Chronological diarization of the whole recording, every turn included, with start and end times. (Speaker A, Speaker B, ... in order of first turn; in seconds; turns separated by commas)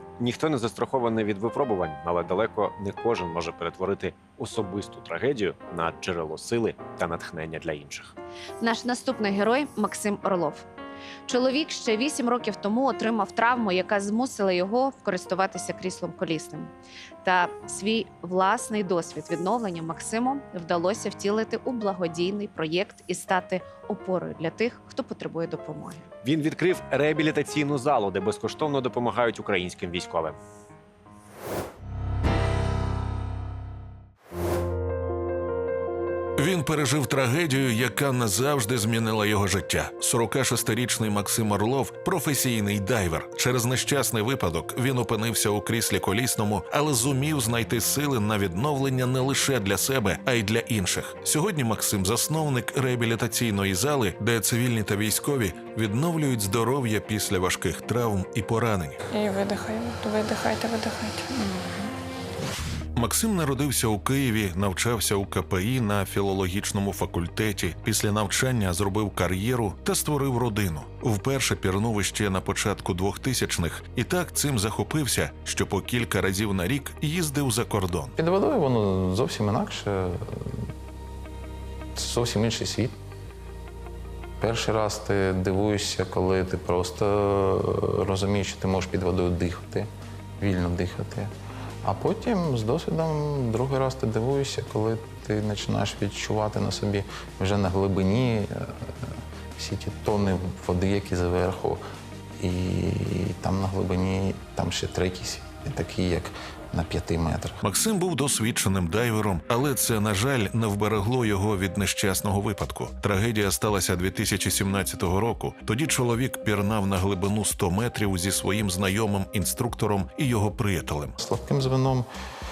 Speaker A: 0.2-8.2, Speaker B: 8.6-10.6, Speaker B: 11.3-16.7, Speaker B: 17.2-26.1, Speaker A: 26.2-30.4, Speaker C: 36.4-59.0, Speaker D: 59.1-61.9, Speaker C: 63.0-78.1, Speaker E: 78.2-80.7, Speaker E: 81.9-82.9, Speaker E: 84.4-89.9, Speaker E: 90.4-91.3, Speaker E: 91.8-101.8, Speaker E: 102.4-107.6, Speaker C: 107.6-121.1, Speaker E: 121.2-122.0